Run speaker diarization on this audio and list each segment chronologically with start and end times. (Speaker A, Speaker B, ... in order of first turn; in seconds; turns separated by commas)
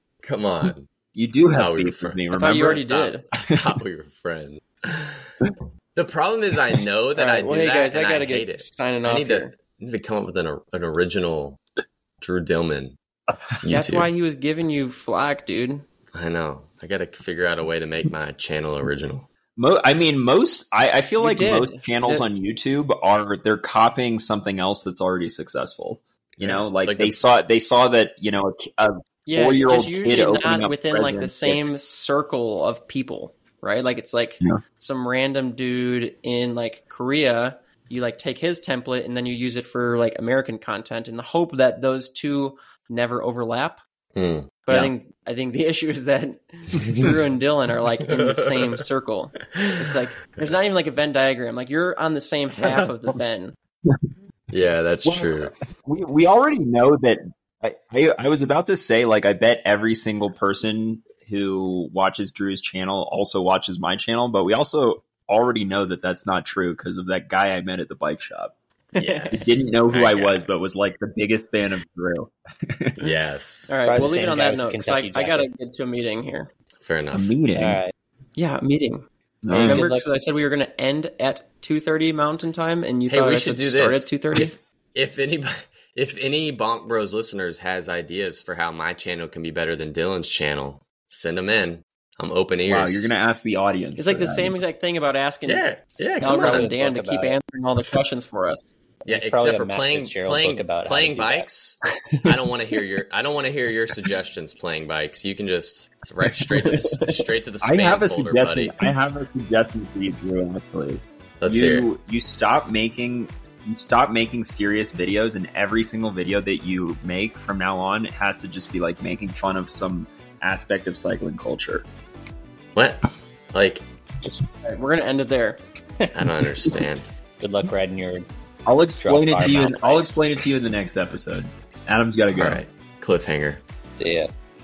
Speaker A: 0.2-0.9, Speaker B: 1.1-2.9, Speaker A: 1.5-11.6, Speaker C: 2.3-3.2, Speaker C: 7.2-9.5, Speaker A: 12.2-13.0, Speaker A: 13.6-14.1, Speaker C: 13.7-15.8, Speaker A: 16.1-19.3, Speaker B: 19.6-31.7, Speaker C: 21.2-22.2, Speaker A: 26.4-27.1, Speaker C: 29.3-43.8, Speaker A: 44.1-44.7, Speaker C: 44.7-53.6, Speaker A: 46.8-47.1, Speaker A: 48.1-48.8, Speaker A: 49.5-50.0, Speaker A: 52.6-52.9, Speaker A: 54.5-55.5, Speaker B: 55.0-68.5, Speaker C: 69.0-69.6, Speaker A: 69.0-70.5, Speaker B: 69.3-73.2, Speaker A: 73.0-73.8, Speaker C: 73.7-76.5, Speaker D: 73.9-75.5, Speaker A: 76.8-77.4, Speaker B: 77.1-77.8, Speaker D: 77.6-77.9, Speaker C: 78.4-79.1, Speaker B: 79.4-79.9, Speaker A: 79.5-79.8, Speaker C: 79.6-84.6, Speaker D: 79.7-80.0, Speaker A: 83.1-93.1, Speaker B: 92.7-94.6, Speaker C: 94.0-98.7, Speaker A: 95.5-96.7, Speaker D: 96.2-97.4, Speaker D: 99.0-101.5, Speaker A: 99.1-108.8, Speaker C: 106.6-107.3, Speaker B: 107.6-121.8, Speaker A: 111.4-111.8, Speaker A: 122.8-123.8, Speaker C: 124.6-125.6, Speaker A: 126.1-127.1, Speaker D: 127.4-128.2, Speaker B: 128.7-132.6, Speaker D: 129.0-130.2, Speaker A: 132.3-133.6, Speaker D: 134.0-134.3